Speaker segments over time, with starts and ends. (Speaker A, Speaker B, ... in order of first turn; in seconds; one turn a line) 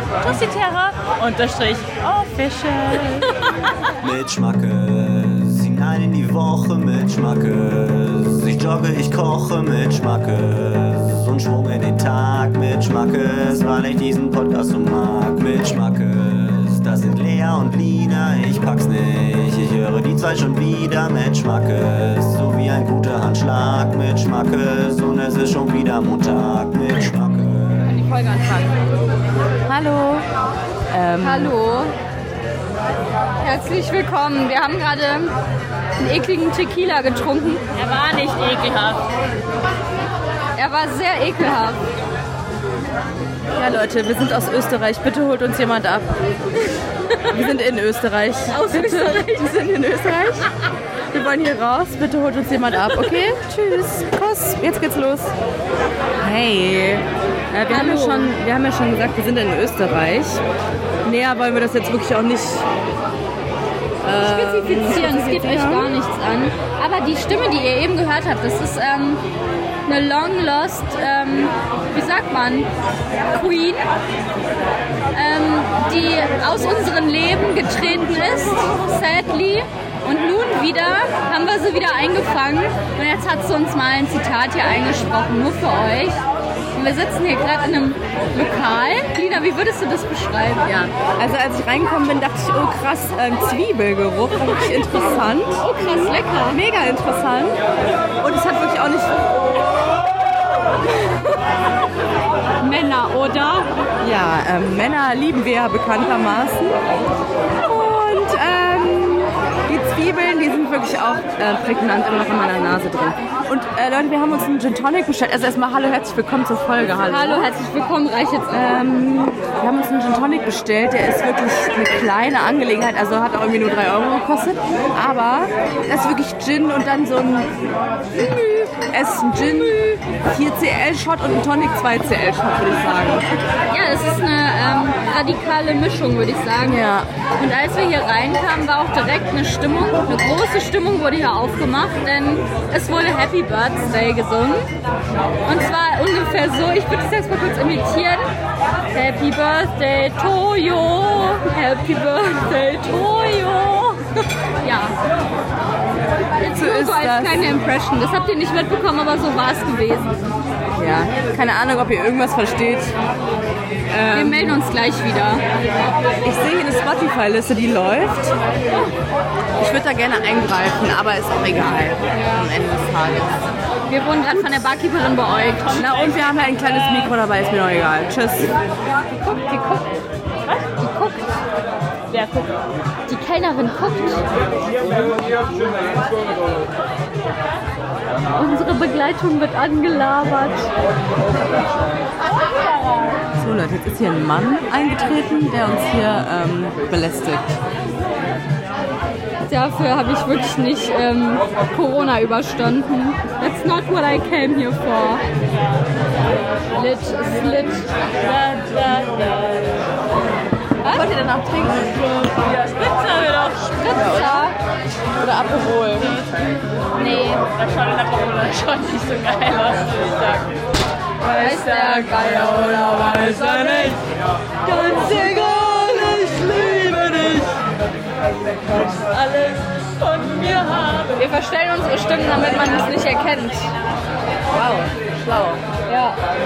Speaker A: 0.2-3.3
Speaker B: 4.0-27.9
Speaker C: 27.9-28.7
Speaker D: 29.6-30.3
Speaker D: 30.9-31.5
Speaker C: 31.2-31.9
Speaker C: 33.4-35.4
Speaker C: 36.0-37.6
Speaker A: 37.8-39.0
Speaker C: 40.5-41.8
Speaker D: 43.6-46.2
Speaker D: 47.3-50.5
Speaker C: 48.5-49.5
Speaker D: 51.1-53.4
Speaker C: 53.5-54.1
Speaker D: 54.0-55.3
Speaker D: 56.2-60.4
Speaker C: 57.7-58.4
Speaker D: 61.0-62.7
Speaker D: 64.0-65.9
Speaker C: 64.1-69.2
Speaker C: 69.9-72.7
Speaker C: 73.3-73.9
Speaker C: 75.1-86.2
Speaker C: 86.7-90.7
Speaker D: 90.7-95.7
Speaker C: 95.6-96.6
Speaker D: 96.5-97.6
Speaker D: 98.2-99.3
Speaker C: 102.6-103.7
Speaker D: 104.0-106.8
Speaker D: 107.6-117.5
Speaker C: 117.0-118.8
Speaker D: 118.5-127.5
Speaker D: 128.2-133.3
Speaker C: 133.7-136.8
Speaker D: 136.6-137.1
Speaker C: 137.3-144.7
Speaker C: 145.4-148.3
Speaker C: 148.9-155.0
Speaker C: 156.4-160.2
Speaker D: 156.5-157.5
Speaker D: 160.7-162.9
Speaker D: 163.9-164.6
Speaker C: 164.1-165.4
Speaker D: 166.2-168.3
Speaker D: 169.6-173.4
Speaker C: 173.9-175.8
Speaker D: 174.3-174.6
Speaker D: 175.8-178.5
Speaker C: 179.2-179.9
Speaker C: 180.8-181.4
Speaker A: 182.1-182.5
Speaker C: 183.1-184.4
Speaker C: 188.3-190.7
Speaker D: 193.4-197.6
Speaker C: 199.5-205.2
Speaker C: 206.7-207.9
Speaker A: 208.3-209.8
Speaker D: 210.9-212.1
Speaker A: 212.3-213.7
Speaker C: 213.7-214.6
Speaker D: 213.9-214.6
Speaker D: 215.2-216.2
Speaker C: 217.0-217.4
Speaker A: 217.5-220.5
Speaker C: 221.3-224.0
Speaker A: 221.5-222.2
Speaker D: 224.7-227.4
Speaker A: 229.3-231.1
Speaker C: 231.1-233.7
Speaker D: 234.5-235.6
Speaker C: 235.9-236.2